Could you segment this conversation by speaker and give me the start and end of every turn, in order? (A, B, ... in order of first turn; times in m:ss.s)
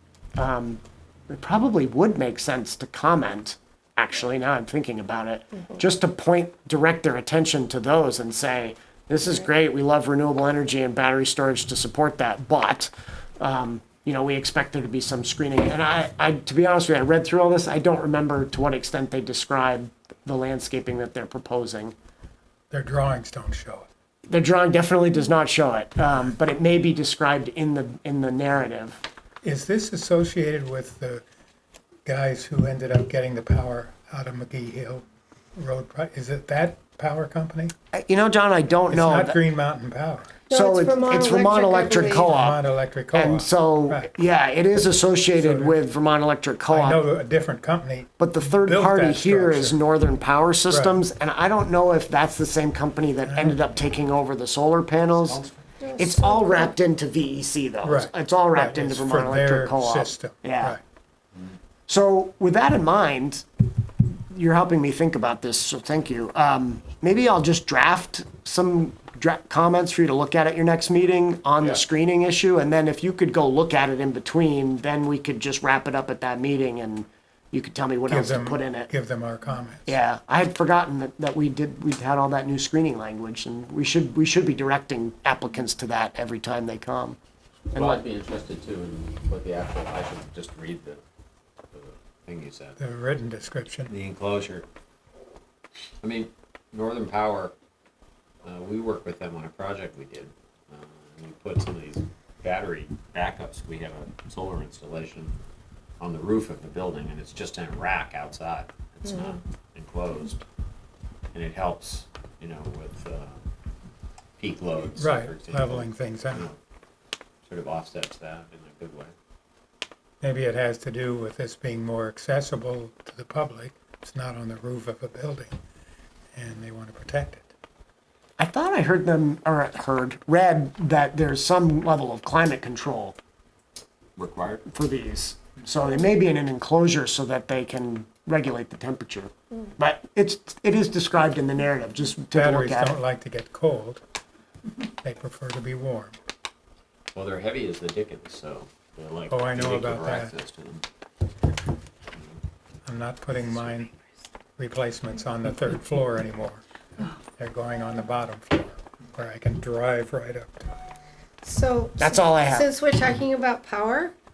0:00.4-0:21.9 A
0:22.7-0:23.9 B
0:24.3-0:29.0 A
0:29.4-0:31.2 B
0:32.0-0:37.7 B
0:37.9-0:39.4 A
0:38.9-0:40.4 B
0:40.5-0:42.3 C
0:40.5-0:42.6 A
0:42.1-0:44.1 B
0:43.1-0:47.0 A
0:45.4-0:45.8 B
0:46.7-0:49.8 B
0:48.2-0:55.4 A
0:50.7-0:51.0 B
0:53.3-0:53.6 B
0:55.8-0:56.6 C
0:56.0-1:00.8 A
0:57.8-1:00.8 B
1:01.9-1:03.4 A
1:04.1-1:18.9 A
1:18.1-1:19.9 B
1:19.9-1:27.2 A
1:27.7-1:31.0 D
1:27.7-1:28.0 A
1:31.7-1:32.8 D
1:32.8-1:33.9 B
1:33.9-1:34.6 D
1:36.0-1:37.5 D
1:38.4-1:45.3 D
1:46.0-1:50.4 D
1:51.3-1:53.5 D
1:54.4-1:56.6 D
1:55.0-1:56.5 B
1:57.4-1:59.1 D
2:00.2-2:05.5 B
2:06.3-2:07.5 B
2:08.4-2:13.2 A
2:14.2-2:14.6 D
2:14.7-2:23.0 A
2:22.3-2:24.0 B
2:25.0-2:26.2 B
2:27.1-2:30.8 D
2:29.3-2:30.3 B
2:32.8-2:33.9 B
2:34.6-2:36.6 B
2:37.4-2:40.7 B
2:41.4-2:44.2 C
2:42.0-2:42.7 A